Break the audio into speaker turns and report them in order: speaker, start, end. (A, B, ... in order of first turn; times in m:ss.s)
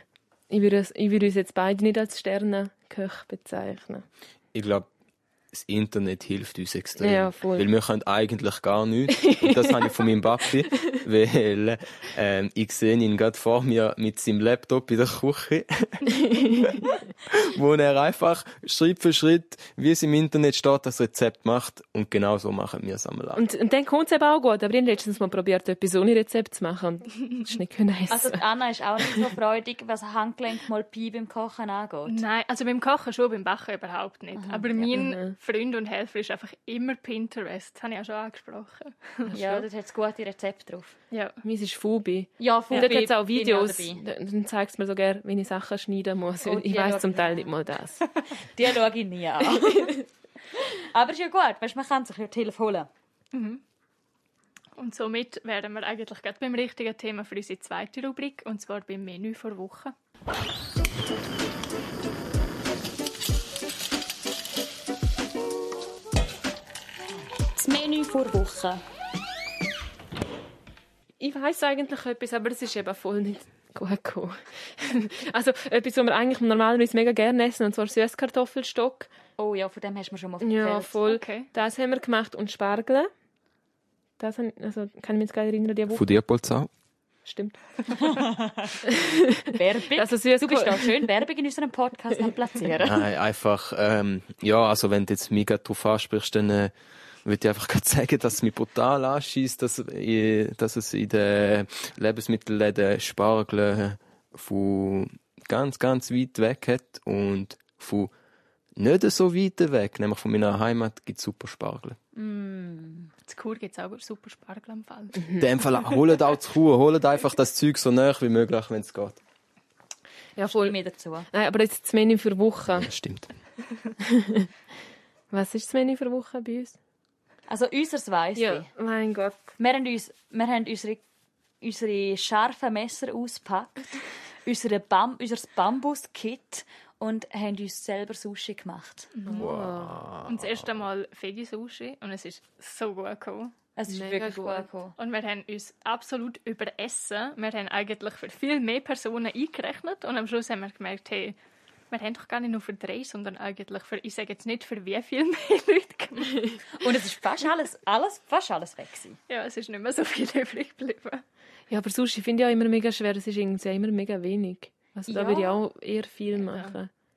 0:00.5-0:04.0 A
0:04.5-0:04.9 B
0:05.5-0:23.4 B
0:07.0-0:07.7 A
0:09.2-0:09.7 A
0:16.1-0:16.7 A
0:23.3-0:28.4 A
0:28.1-0:32.2 C
0:32.0-0:39.3 D
0:34.3-0:34.8 C
0:34.9-0:35.3 A
0:39.3-0:39.7 A
0:39.3-0:41.0 C
0:41.1-0:41.4 D
0:41.4-0:48.0 A
0:42.4-0:44.0 C
0:42.7-0:43.0 D
0:46.4-0:47.5 C
0:48.5-0:52.9 C
0:49.5-0:50.0 A
0:53.3-0:53.6 D
0:54.8-0:59.9 D
1:07.6-1:08.8 C
1:11.2-1:19.1 A
1:19.4-1:21.0 C
1:20.4-1:23.1 A
1:21.1-1:21.5 D
1:24.2-1:26.0 A
1:25.9-1:26.7 B
1:27.2-1:27.6 A
1:27.9-1:33.0 C
1:28.8-1:30.9 A
1:32.8-1:36.7 B
1:37.2-1:48.1 B
1:48.8-1:52.0 B
1:52.1-1:53.1 C
1:53.3-1:55.2 D
1:55.4-1:59.2 B
2:00.4-2:00.8 A
2:00.5-2:01.3 C
2:01.3-2:02.9 A
2:02.7-2:03.3 B
2:04.0-2:04.5 A
2:05.3-2:06.8 A
2:07.5-2:08.7 C
2:08.4-2:09.4 A
2:09.6-2:11.0 C
2:11.6-2:19.1 C
2:19.1-2:19.5 D
2:19.3-2:20.0 A
2:19.4-2:20.8 B
2:20.2-2:23.5 D
2:23.8-2:25.0 C
2:23.9-2:24.7 A
2:25.0-2:31.4 D
2:31.9-2:36.6 D
2:36.8-2:39.2 C
2:39.3-2:41.2 D
2:41.7-2:46.9 A
2:45.1-2:45.6 C
2:46.4-2:46.8 D